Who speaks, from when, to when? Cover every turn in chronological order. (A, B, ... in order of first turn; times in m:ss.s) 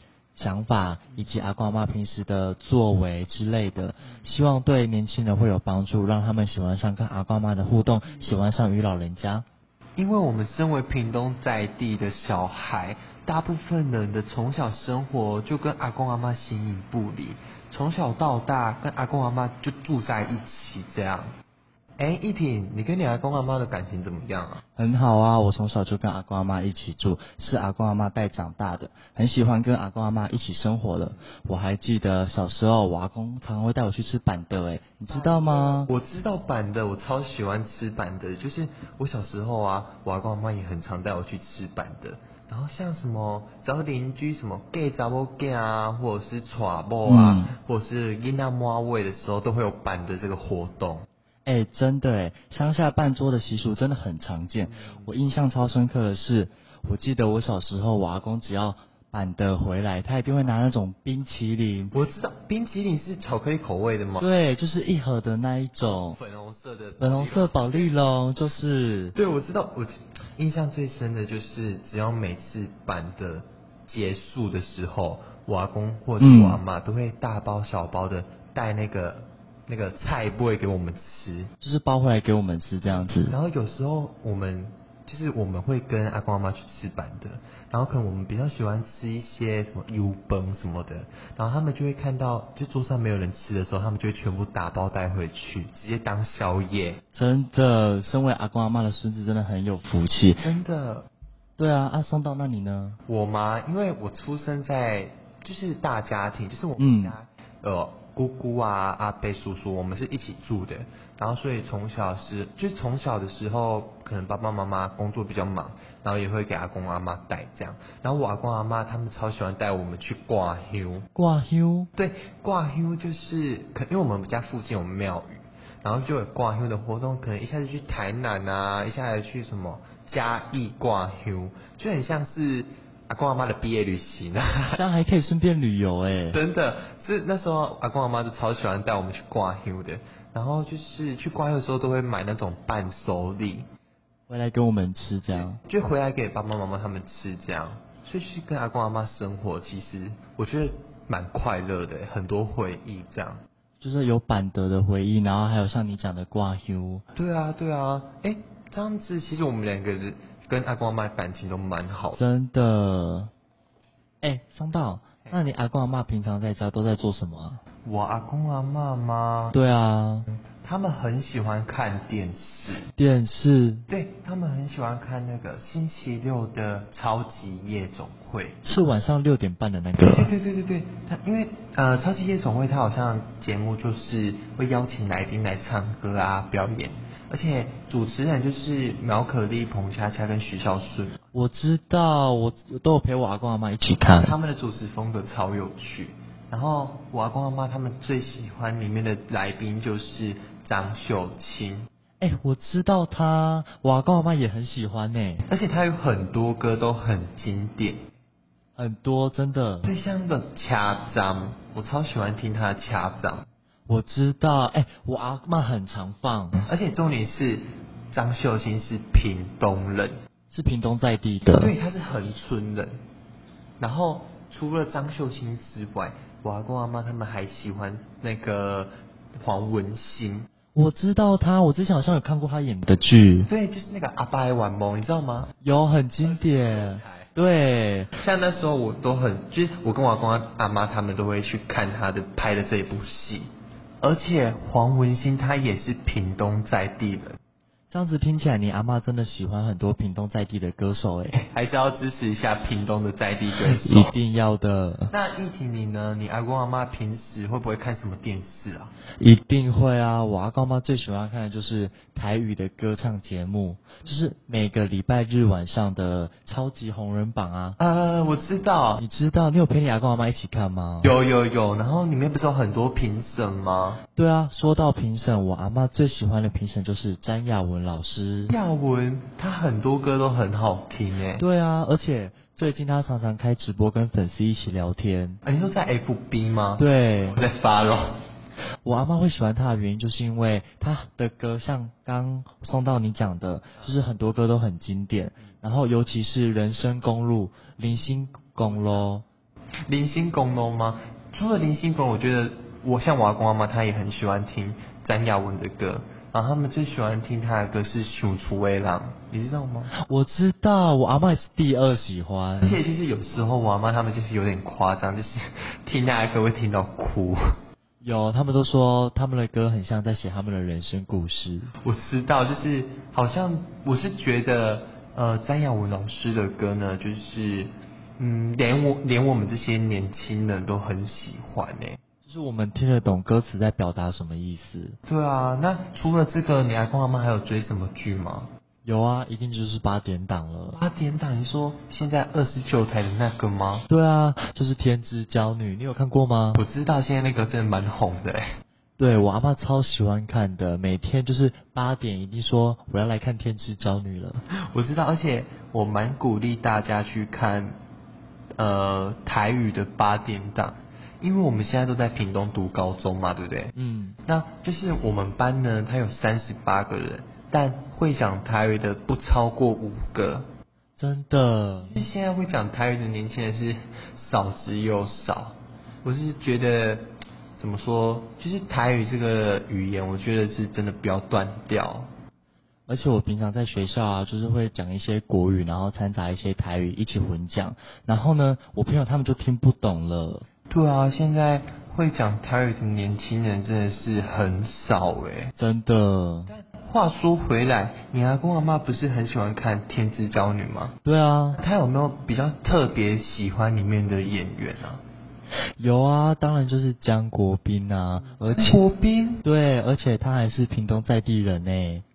0:00.3-0:09.4 A
0:08.1-0:08.3 B
0:10.0-0:21.3 B
0:22.0-0:24.6 B
0:24.8-0:35.9 A
0:35.1-0:51.0 B
0:47.0-0:47.5 A
0:51.4-1:01.9 A
0:54.6-0:55.1 B
1:01.9-1:04.2 B
1:04.2-1:06.2 A
1:06.0-1:07.9 B
1:07.0-1:09.1 A
1:09.1-1:21.5 B
1:16.2-1:16.6 A
1:21.6-1:23.3 A
1:22.8-1:37.0 B
1:37.1-1:40.4 A
1:40.4-1:41.1 B
1:41.6-1:43.0 A
1:43.1-2:01.1 B
1:46.8-1:47.2 A
2:01.1-2:01.9 A
2:02.0-2:14.8 B
2:14.7-2:16.4 A
2:16.3-2:23.7 B
2:24.3-2:25.6 A
2:25.3-2:33.4 B
2:33.8-2:37.0 A
2:37.1-2:42.2 B
2:42.2-2:43.3 A
2:44.2-2:47.6 A
2:47.8-2:49.6 B
2:49.5-2:50.3 A
2:50.6-2:52.9 B
2:53.0-2:53.8 A
2:53.9-2:58.6 B
2:58.6-3:00.3 A
3:00.0-3:11.3 B
3:11.3-3:14.3 A
3:14.2-3:21.9 B
3:22.2-3:25.5 A
3:25.5-3:28.0 B
3:28.8-3:29.9 A
3:29.8-3:33.5 B
3:33.9-3:36.6 A
3:36.6-3:40.2 B
3:40.5-3:41.7 A
3:41.4-3:43.0 B
3:43.8-3:50.5 B
3:50.7-3:53.5 A
3:53.5-3:55.5 B
3:55.6-3:58.2 A
3:56.2-3:57.3 B
3:58.2-4:03.5 B
4:04.0-4:07.4 B
4:07.9-4:11.3 A
4:11.3-4:14.2 B
4:13.6-4:15.1 A
4:15.1-4:18.9 B
4:19.2-4:27.8 A
4:27.8-4:29.0 B
4:29.0-4:31.1 A
4:31.0-4:34.0 B
4:34.2-4:38.5 A
4:38.5-4:41.4 B
4:41.4-4:45.4 A
4:45.4-4:48.2 B
4:46.8-4:47.4 A
4:48.8-4:59.2 A
4:58.6-4:59.0 B
4:59.9-5:09.9 B
5:09.9-5:12.8 A
5:12.6-5:17.4 B
5:18.0-5:21.7 A
5:21.8-5:32.0 B
5:32.2-5:35.0 A
5:35.1-5:38.5 B
5:38.8-5:40.8 A
5:40.7-5:43.8 B
5:43.9-5:46.6 A
5:46.5-5:48.4 B
5:49.0-5:54.4 A
5:54.5-5:57.8 B
5:58.6-6:03.7 B
6:03.7-6:04.2 A
6:04.2-6:10.5 B
6:11.0-6:12.0 A
6:11.7-6:22.1 B
6:22.9-6:30.4 A
6:30.7-6:35.5 B
6:35.6-6:36.5 A
6:36.5-6:40.9 B
6:41.0-6:41.6 A
6:41.5-6:45.0 B
6:45.8-6:48.8 A
6:48.2-6:49.4 B
6:49.4-6:52.0 A